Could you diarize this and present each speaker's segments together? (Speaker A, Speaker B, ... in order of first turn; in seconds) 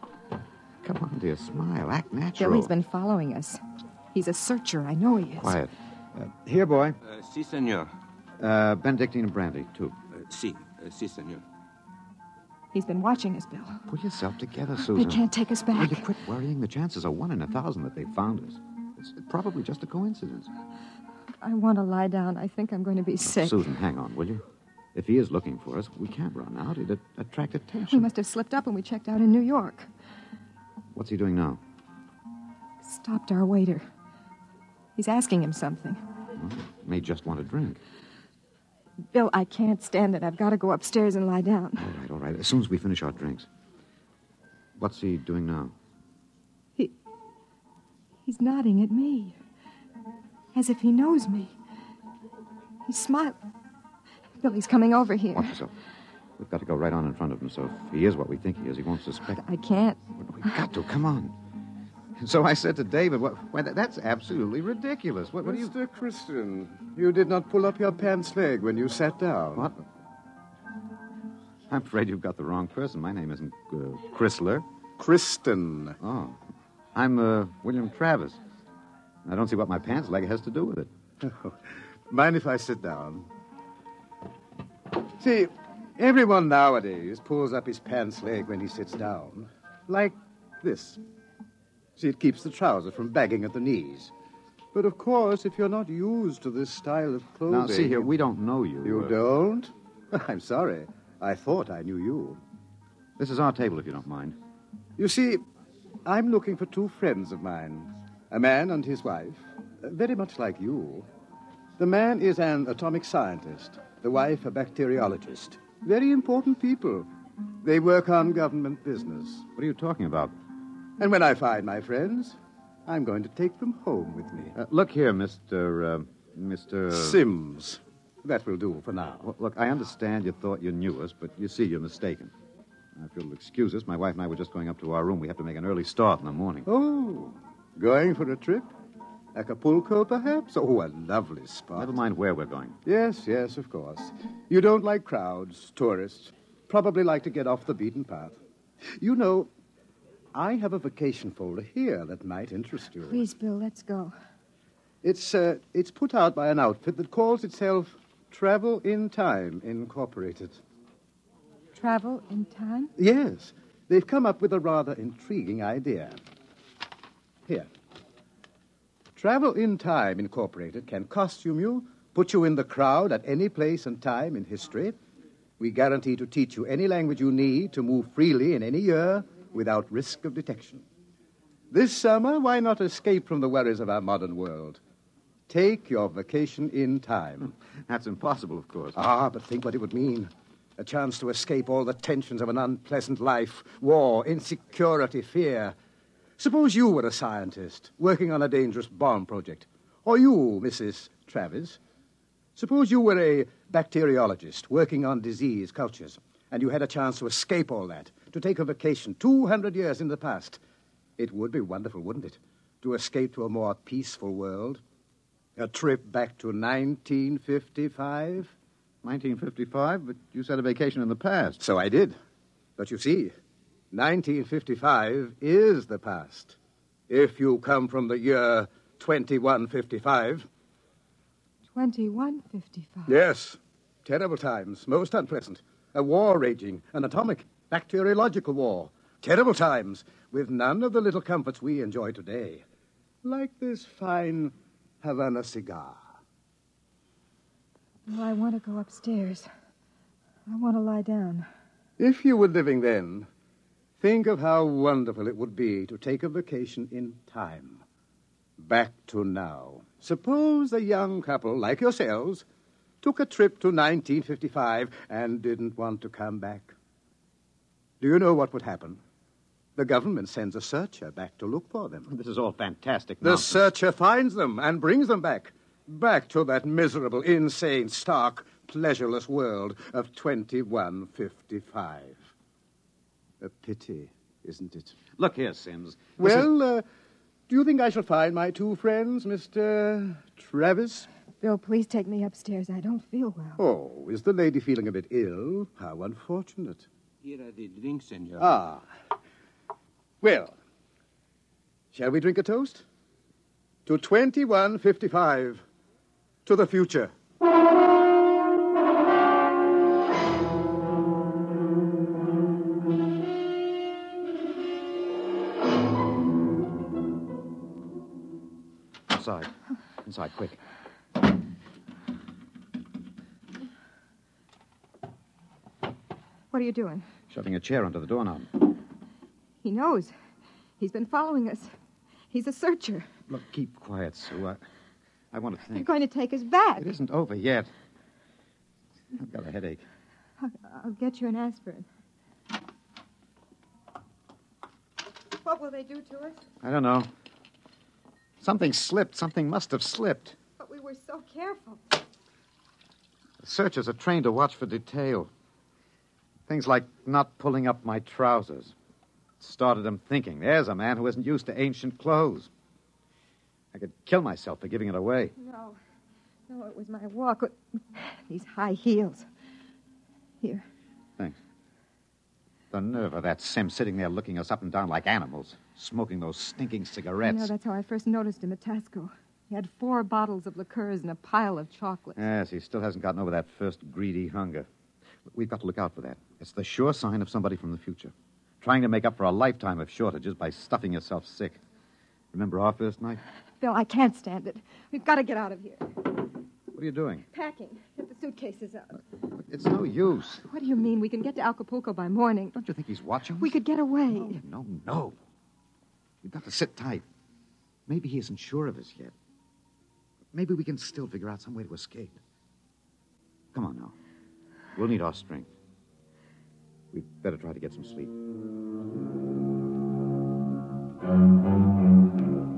Speaker A: 0.8-2.7, 5.4-7.0, 8.4-9.9, 13.9-20.5, 23.2-24.4, 24.9-28.1, 30.9-31.6, 36.4-37.8, 41.8-43.5, 44.8-45.7, 55.3-55.7, 56.4-59.4, 60.2-61.4, 62.2-65.7, 69.5-69.8, 71.7-74.7, 76.0-76.4, 77.0-78.4, 79.2-80.9, 97.5-99.2, 103.2-104.4, 119.6-120.3, 124.5-127.2, 129.2-132.3, 132.9-136.7, 141.8-142.8, 187.4-189.0, 219.0-221.6, 272.1-273.7, 285.2-286.5, 319.1-319.5, 320.0-320.6, 327.3-328.5, 333.3-334.6, 335.3-335.9, 336.8-337.7, 339.1-339.9, 346.6-347.1, 348.4-350.4, 353.4-355.3, 356.5-358.8, 359.4-362.5, 363.7-365.4, 372.7-377.5, 382.2-384.7, 385.3-391.6, 392.3-393.2, 396.7-397.3, 399.4-400.4, 402.6-405.2, 406.2-407.1, 407.9-409.1, 410.3-412.2, 413.5-413.9, 414.8-415.5, 416.9-418.1
Speaker B: 2.4-3.6, 4.1-5.6, 12.7-13.8, 14.8-16.1, 21.4-23.6, 27.9-29.9, 32.8-33.9, 35.0-36.0, 39.1-41.9, 48.3-49.4, 50.5-51.5, 52.9-53.4, 54.4-55.5, 59.3-60.0, 153.1-154.1, 161.8-162.9, 231.7-233.1, 248.1-249.5, 250.5-251.5, 291.4-293.6, 326.5-327.1, 329.6-330.1, 330.8-331.7, 332.3-333.1, 335.7-336.9, 340.4-341.9, 345.4-346.4, 350.6-352.0, 365.4-365.8, 366.5-369.3, 377.2-382.2, 393.6-395.9, 397.3-399.0, 400.4-402.6, 403.4-404.4
Speaker C: 7.2-7.8, 10.3-11.4, 297.2-298.4
Speaker D: 65.4-69.7, 75.0-76.0, 81.2-83.3, 85.2-91.0, 92.0-94.1, 94.7-98.1, 98.8-102.4, 105.0-105.4, 106.1-111.1, 111.8-117.1, 117.6-119.5, 121.0-124.5, 126.9-129.2, 136.7-138.7, 139.3-141.9, 142.8-148.4, 149.0-149.5, 150.3-153.3, 155.0-160.6, 163.0-166.2, 169.2-175.0, 175.6-180.8, 181.7-184.8, 185.5-187.5, 189.0-195.8, 196.4-201.8, 202.6-210.6, 211.2-214.8, 215.6-218.5, 221.6-222.2, 222.8-223.3, 223.9-226.6, 227.1-230.5, 233.1-242.6, 243.2-246.1, 252.0-253.3, 254.0-257.8, 258.6-262.4, 263.0-266.7, 268.0-269.0, 269.8-272.1, 273.2-282.2, 283.4-285.0, 286.2-286.8, 287.5-291.1, 293.6-296.9, 298.4-298.9, 300.2-300.6, 301.9-302.8, 303.9-305.6, 306.4-307.1